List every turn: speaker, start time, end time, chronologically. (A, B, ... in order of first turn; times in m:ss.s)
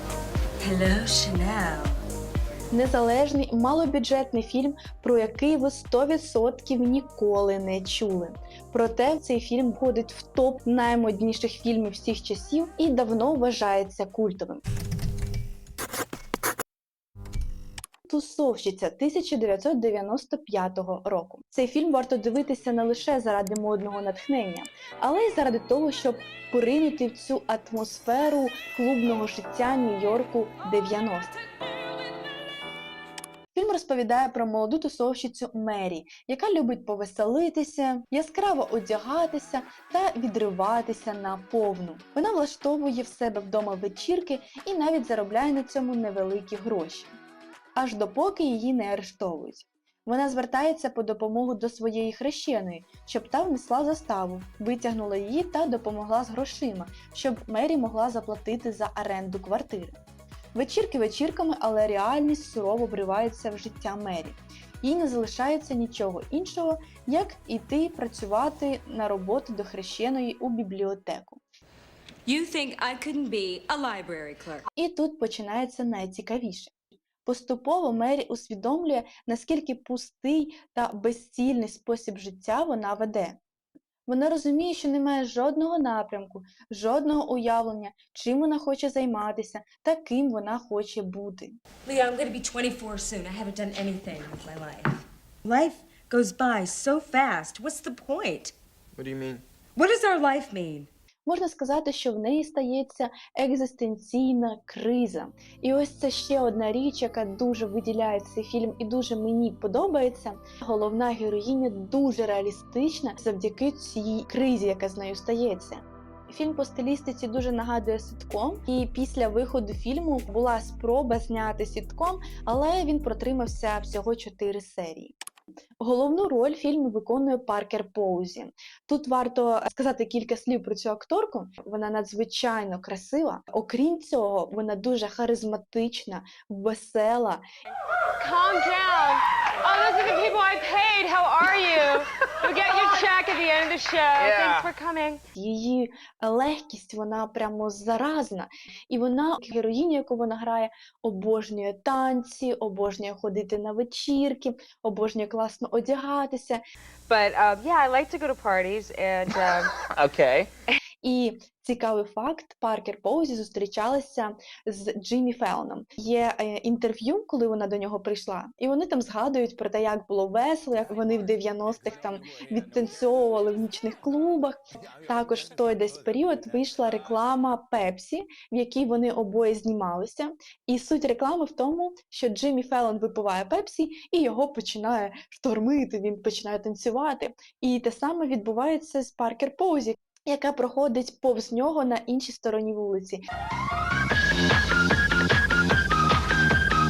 0:00.6-0:02.0 A
0:02.7-0:14.6 B
0:18.1-0:31.3 B
0:33.5-0:47.2 B
0:47.7-1:00.0 B
1:00.5-1:11.4 B
1:12.2-1:14.6 A
1:14.7-1:16.7 B
1:17.2-1:23.4 B
1:24.1-1:31.6 B
1:31.8-1:38.5 A
1:39.0-1:39.4 C
1:39.8-1:40.9 A
1:41.2-2:05.1 B
2:05.8-2:17.4 B
2:18.2-2:25.2 D
2:24.2-2:24.7 C
2:25.4-2:36.6 B
2:37.1-2:39.8 D
2:39.4-2:40.5 C
2:41.0-3:13.2 B